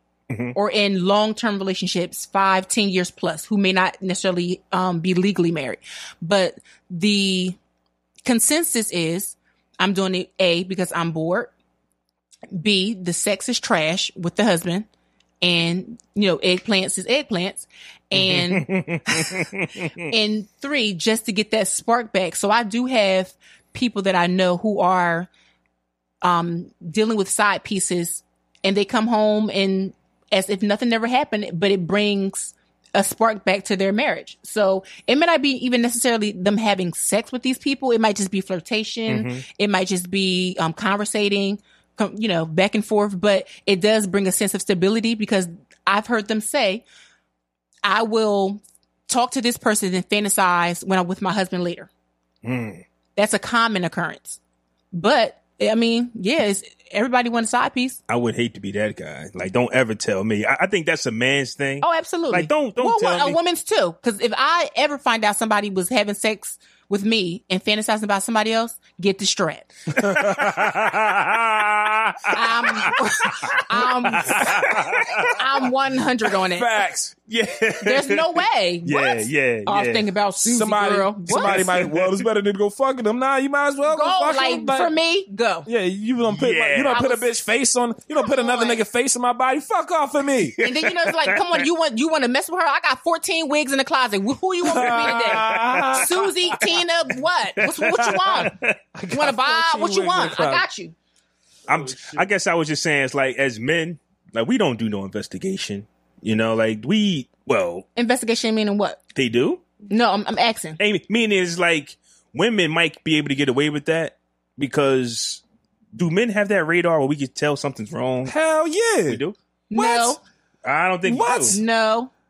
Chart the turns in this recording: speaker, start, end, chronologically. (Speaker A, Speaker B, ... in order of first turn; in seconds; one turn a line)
Speaker A: 0.3-0.6
Speaker B: 0.5-7.6
Speaker B: 8.2-11.5
Speaker B: 12.5-14.9
Speaker B: 15.4-25.3
Speaker A: 18.1-19.9
Speaker B: 26.2-46.8
Speaker A: 39.1-39.4
Speaker B: 47.8-51.9
Speaker A: 52.4-52.8
Speaker B: 53.2-54.4
Speaker B: 54.9-58.0
Speaker A: 58.1-63.4
Speaker B: 61.8-69.7
Speaker C: 69.9-72.9
Speaker A: 70.0-75.4
Speaker B: 72.3-74.7
Speaker C: 74.2-75.4
Speaker B: 75.3-76.8
Speaker C: 76.5-77.1
Speaker A: 77.3-80.1
Speaker B: 77.8-81.7
Speaker C: 80.4-84.9
Speaker A: 81.3-82.3
Speaker B: 83.8-85.7
Speaker C: 85.7-90.6
Speaker A: 86.3-87.0
Speaker B: 86.9-87.3
Speaker B: 88.2-88.8
Speaker A: 90.4-91.6
Speaker B: 90.6-98.5
Speaker C: 94.7-96.5
Speaker A: 94.7-96.1
Speaker A: 97.6-98.8
Speaker C: 99.0-100.7
Speaker B: 99.1-101.0
Speaker A: 101.7-107.8
Speaker C: 101.7-102.3
Speaker B: 108.0-109.0
Speaker A: 109.2-109.6
Speaker B: 109.9-110.8
Speaker A: 110.8-115.4
Speaker A: 116.0-118.3
Speaker C: 118.2-119.2
Speaker A: 119.1-119.4
Speaker B: 119.7-120.2
Speaker C: 119.7-120.2
Speaker A: 120.6-121.6
Speaker C: 121.0-121.6
Speaker B: 121.2-122.1